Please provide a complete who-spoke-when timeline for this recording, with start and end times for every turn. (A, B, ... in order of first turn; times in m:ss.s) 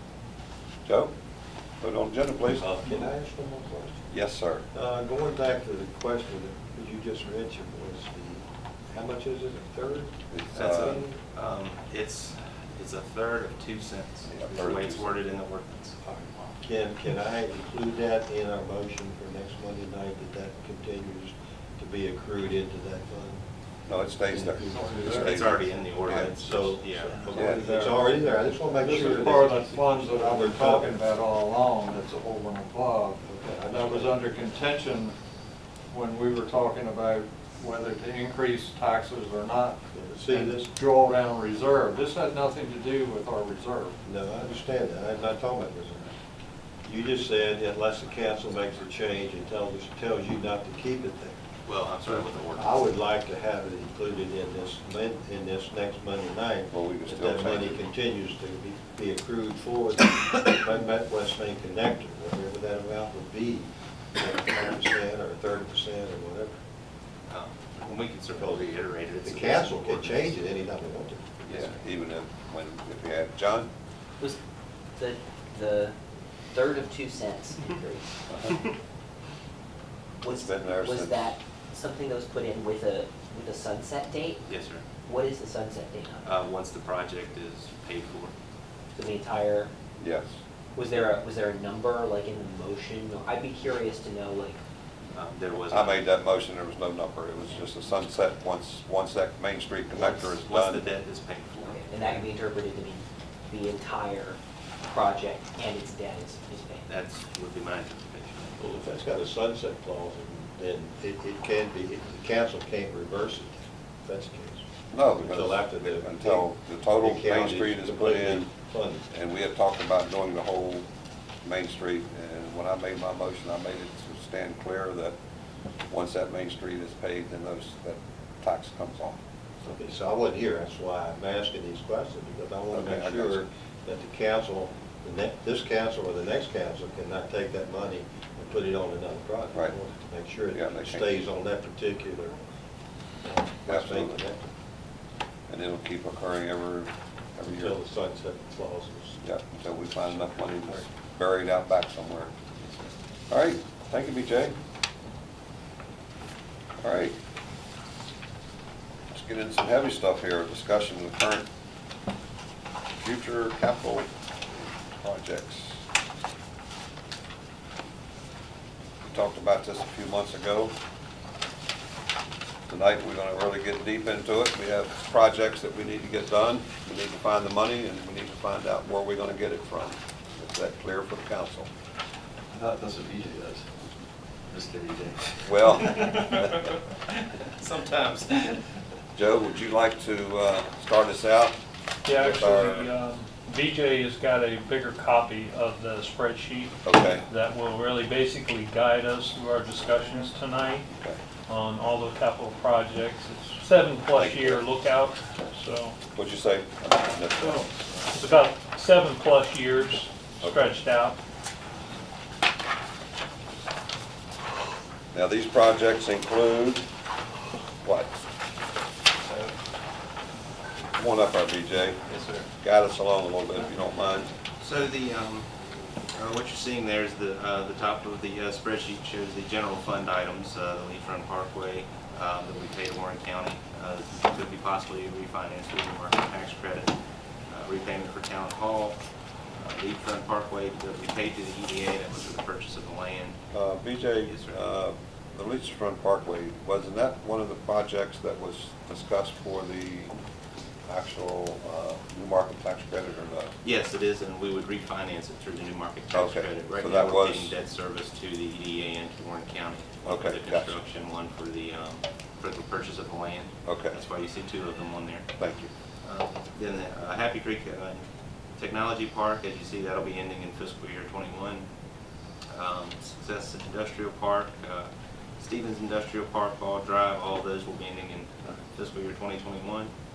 0:00.8-0:01.1 A
0:01.8-0:02.6 A
0:02.6-0:04.0 B
0:04.1-0:04.6 A
0:04.7-0:10.2 B
0:10.3-0:11.0 A
0:10.5-0:16.5 C
0:10.7-0:11.2 B
0:14.3-0:15.1 A
0:16.6-0:23.4 B
0:23.9-0:26.2 A
0:24.3-0:31.0 B
0:24.7-0:25.3 D
0:25.2-0:27.4 C
0:27.3-0:27.7 A
0:27.4-0:28.0 D
0:28.8-0:33.2 D
0:33.2-0:34.2 B
0:33.7-0:35.2 D
0:35.9-0:44.0 D
0:39.9-0:40.7 B
0:44.0-0:46.1 B
0:46.8-0:51.4 B
0:51.6-0:52.8 C
0:52.5-1:06.6 B
0:56.7-0:57.8 A
1:07.3-1:10.4 C
1:08.3-1:11.4 B
1:11.4-1:11.8 C
1:11.5-1:13.7 A
1:15.0-1:15.9 E
1:16.5-1:18.0 E
1:18.3-1:18.6 A
1:20.2-1:24.4 E
1:20.2-1:21.3 A
1:24.4-1:24.8 C
1:25.0-1:26.3 E
1:26.2-1:28.3 C
1:28.9-1:29.7 E
1:30.0-1:30.4 A
1:30.7-1:34.6 E
1:35.1-1:36.1 C
1:35.7-1:40.9 A
1:39.9-1:40.3 E
1:40.4-1:42.3 C
1:41.6-1:44.4 E
1:44.9-1:46.9 E
1:46.9-1:48.6 C
1:48.6-1:54.6 B
1:54.9-1:58.5 A
1:55.2-1:59.0 B
1:59.1-2:00.9 A
2:01.4-2:05.2 A
2:05.9-2:09.2 A
2:09.6-2:22.4 B
2:12.7-2:13.4 A
2:20.5-2:21.2 A
2:23.2-2:24.5 B
2:23.6-2:24.2 A
2:25.5-2:27.7 A
2:27.6-2:29.2 B
2:29.2-2:32.3 A
2:30.0-2:30.9 B
2:33.3-2:34.6 A
2:36.8-2:37.2 A
2:39.1-2:41.5 A
2:43.0-2:45.8 A
2:49.0-2:50.7 A
2:52.7-3:01.7 A
3:02.5-3:03.6 F
3:04.5-3:06.0 F
3:05.4-3:06.6 A
3:05.7-3:06.8 C
3:07.6-3:08.6 C
3:09.1-3:11.6 A
3:12.0-3:20.9 G
3:12.1-3:12.9 A
3:16.8-3:17.2 A
3:20.9-3:21.2 A
3:21.5-3:26.0 G
3:24.1-3:24.6 A
3:26.2-3:27.7 A
3:27.5-3:31.2 G
3:35.1-3:36.8 A
3:37.8-3:38.1 A
3:40.9-3:42.0 A
3:42.0-3:42.5 C
3:42.6-3:44.3 A
3:44.6-3:45.5 C
3:46.1-3:56.9 C
3:57.5-3:59.0 C
3:59.6-4:03.4 C
4:03.5-4:10.1 A
4:04.2-4:04.6 C
4:10.9-4:13.5 A
4:13.6-4:25.3 C
4:16.1-4:17.5 A
4:20.0-4:20.8 A
4:23.6-4:24.0 A
4:25.4-4:25.7 A
4:26.0-4:28.0 C
4:28.6-4:31.7 C
4:32.5-4:39.9 C